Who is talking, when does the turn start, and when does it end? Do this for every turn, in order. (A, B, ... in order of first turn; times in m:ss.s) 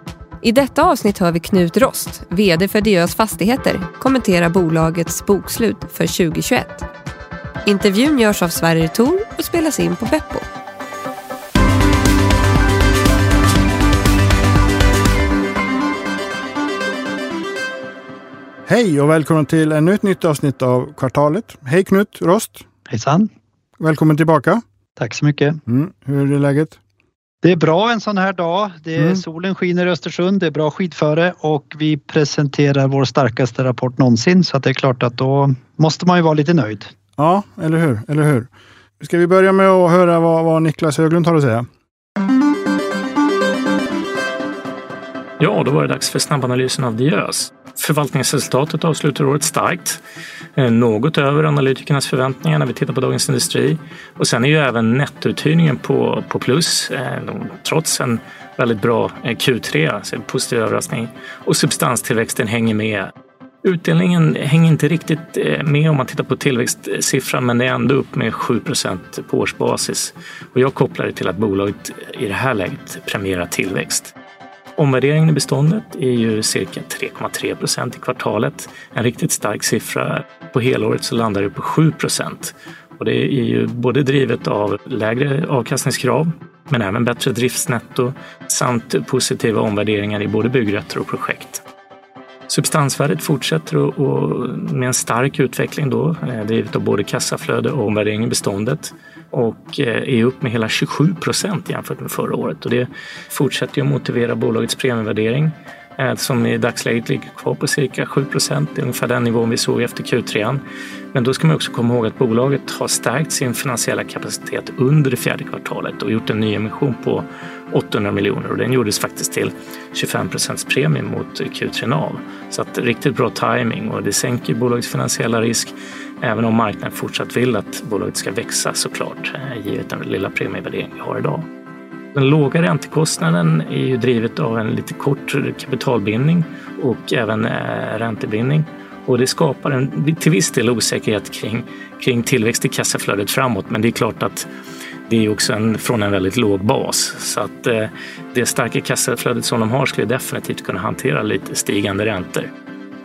0:00.4-0:06.8 A
0:07.6-0:10.5 A
0:18.7-0:22.6 B
0:22.9-0:23.3 C
0:23.8-0:24.6 B
0:25.0-0:25.6 C
0:25.7-0:26.8 B
0:27.4-0:36.9 C
0:37.2-0:38.5 B
0:39.0-0:41.7 B
0:45.4-0:50.0 D
0:50.6-1:03.1 D
1:03.6-1:14.1 D
1:14.8-1:31.6 D
1:32.5-1:50.6 D
1:51.1-2:11.5 D
2:12.1-2:24.5 D
2:25.1-2:32.5 D